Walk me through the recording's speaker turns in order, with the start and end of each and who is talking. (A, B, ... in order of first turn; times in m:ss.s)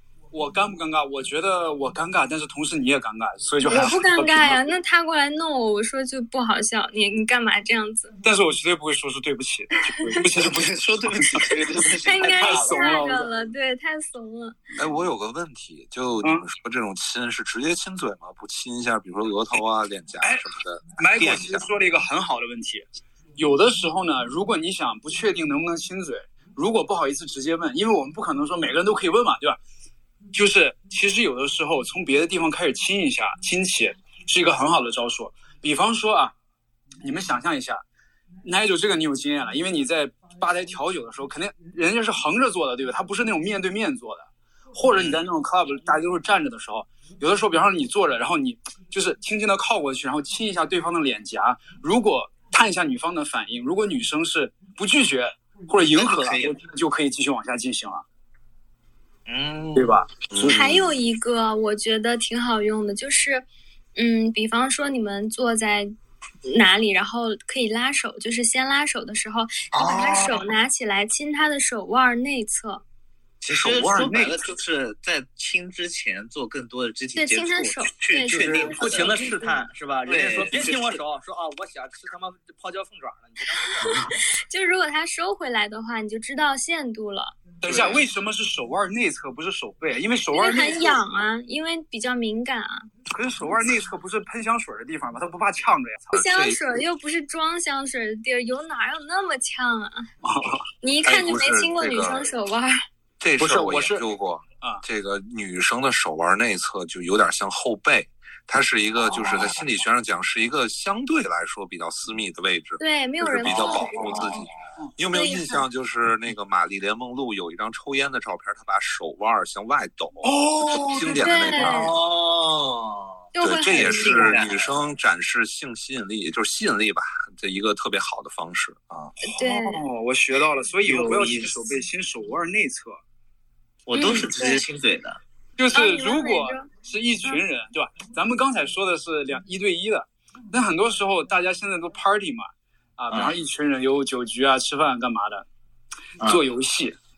0:00.3-0:04.6 A
0:03.6-0:08.1 B
0:08.2-0:11.6 A
0:10.0-0:12.9 C
0:12.0-0:14.6 B
0:12.3-0:13.3 A
0:14.8-0:21.7 D
0:20.2-0:20.4 A
0:21.0-0:29.6 A
0:30.3-0:36.3 A
0:37.0-0:37.8 A
0:38.4-0:58.0 A
0:44.9-0:45.2 C
0:55.9-0:56.6 C
0:59.3-1:00.0 C
0:59.7-1:00.1 A
1:00.3-1:00.9 D
1:00.4-1:05.9 B
1:06.4-1:12.8 B
1:09.7-1:10.4 C
1:13.4-1:19.2 C
1:13.5-1:14.5 A
1:17.2-1:19.6 B
1:18.4-1:24.0 E
1:20.0-1:21.0 C
1:23.8-1:24.2 A
1:23.8-1:27.5 B
1:27.6-1:31.0 A
1:27.7-1:28.0 C
1:30.3-1:32.9 B
1:33.1-1:36.2 A
1:36.1-1:40.1 B
1:36.2-1:36.6 D
1:40.2-1:40.7 A
1:40.8-1:42.8 B
1:41.0-1:42.2 D
1:43.2-2:01.9 D
1:43.4-1:44.0 A
1:52.8-1:54.4 B
1:55.1-1:55.6 B
2:00.2-2:01.9 A
2:01.2-2:01.9 B
2:01.6-2:04.7 C
2:03.3-2:04.3 B
2:03.4-2:09.1 D
2:09.2-2:13.0 A
2:09.2-2:09.8 B
2:10.8-2:11.6 C
2:13.9-2:15.2 C
2:13.9-2:14.6 B
2:15.6-2:25.4 A
2:15.7-2:16.7 B
2:23.1-2:23.4 C
2:26.2-2:27.0 A